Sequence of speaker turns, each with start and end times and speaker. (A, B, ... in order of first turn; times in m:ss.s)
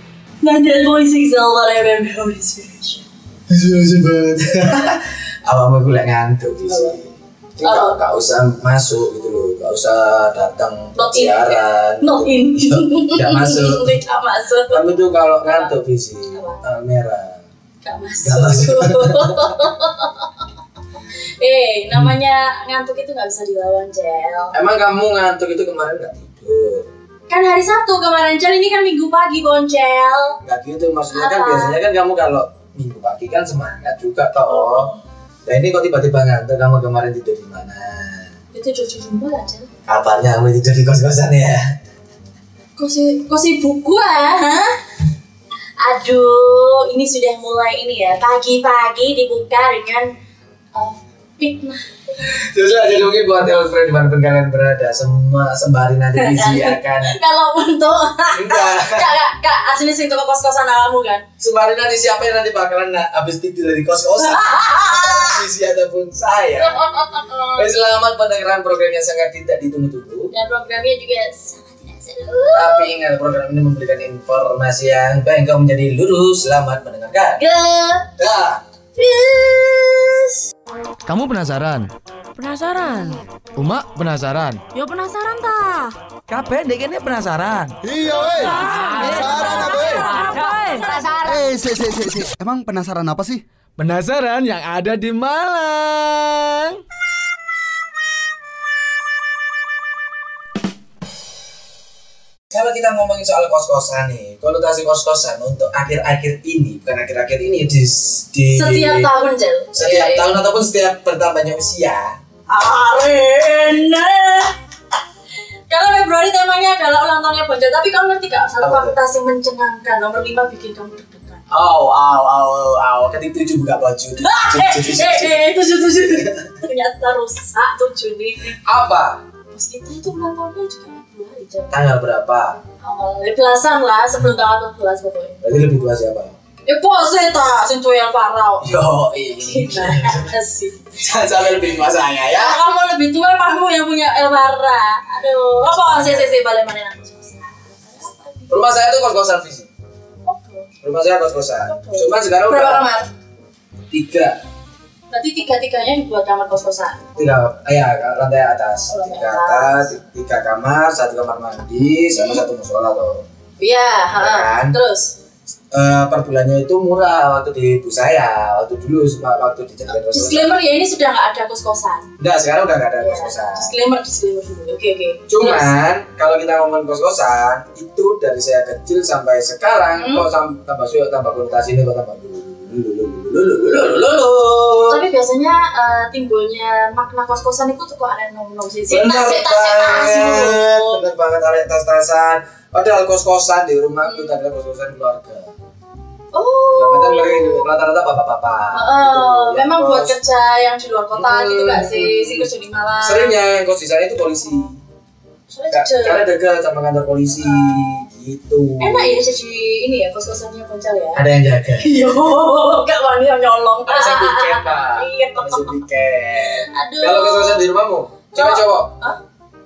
0:00.4-0:03.0 A
0:03.5-0:14.0 B
0:06.7-0:07.0 A
0:07.6-0:08.0 A
0:11.0-0:15.7 A
0:14.7-0:17.4 B
0:16.3-0:16.6 A
0:17.8-0:20.3 A
0:18.2-0:19.5 B
0:21.4-0:24.6 A
0:24.5-0:26.9 B
0:27.3-0:30.4 A
0:30.4-0:34.9 B
0:31.1-0:31.8 A
0:34.4-0:35.0 A
0:35.4-0:38.3 B
0:38.5-0:39.7 A
0:39.9-0:41.6 B
0:42.8-0:44.7 A
0:45.8-0:50.1 A
0:50.7-0:51.8 A
0:52.2-0:57.2 B
0:56.2-1:01.2 A
0:58.3-0:59.1 B
1:01.4-1:06.8 B
1:04.2-1:05.4 A
1:06.6-1:07.7 A
1:07.5-1:10.3 B
1:10.3-1:12.9 A
1:12.5-1:17.4 B
1:17.4-1:18.1 A
1:18.2-1:18.6 B
1:19.0-1:20.3 A
1:21.0-1:21.9 C
1:22.4-1:23.2 D
1:23.6-1:24.6 C
1:24.7-1:25.9 A
1:26.3-1:30.9 C
1:27.9-1:28.5 E
1:28.0-1:31.6 A
1:28.9-1:30.1 D
1:29.2-1:29.9 E
1:31.3-1:33.4 E
1:33.8-1:36.8 C
1:42.5-1:49.1 B
1:48.5-1:50.3 A
1:49.7-1:52.2 B
1:52.5-1:54.5 A
1:55.7-2:01.4 A
1:58.6-1:59.0 B
2:01.5-2:05.5 B
2:04.2-2:08.6 A
2:06.0-2:06.3 B
2:08.6-2:09.2 B
2:09.5-2:11.9 A
2:11.7-2:12.6 B
2:12.8-2:15.4 A
2:15.4-2:16.4 B
2:16.6-2:18.7 A
2:18.6-2:20.4 B
2:19.4-2:20.9 A
2:21.0-2:22.6 B
2:22.3-2:28.7 A
2:25.6-2:26.4 B
2:28.5-2:29.7 B
2:30.2-2:30.7 A
2:30.8-2:32.9 B
2:31.6-2:33.1 A
2:33.9-2:34.4 B
2:35.1-2:37.0 A
2:37.2-2:43.2 B
2:38.9-2:40.0 A
2:43.6-2:45.1 A
2:44.1-2:44.8 B
2:45.7-2:50.6 B
2:49.9-2:52.1 A
2:52.2-2:53.7 B
2:53.0-2:55.7 A
2:55.3-3:05.0 B
2:59.9-3:00.2 A
3:04.9-3:11.0 A
3:08.9-3:15.5 B
3:14.0-3:14.4 A
3:16.3-3:17.7 A
3:16.7-3:20.2 B
3:18.7-3:23.4 A
3:21.1-3:22.5 B
3:23.0-3:24.8 B
3:25.5-3:26.3 A
3:25.7-3:29.2 B
3:27.4-3:28.0 A
3:28.8-3:31.2 A
3:31.1-3:31.9 B
3:31.8-3:35.8 A
3:33.8-3:38.9 B
3:36.7-3:37.7 A
3:38.3-3:39.2 A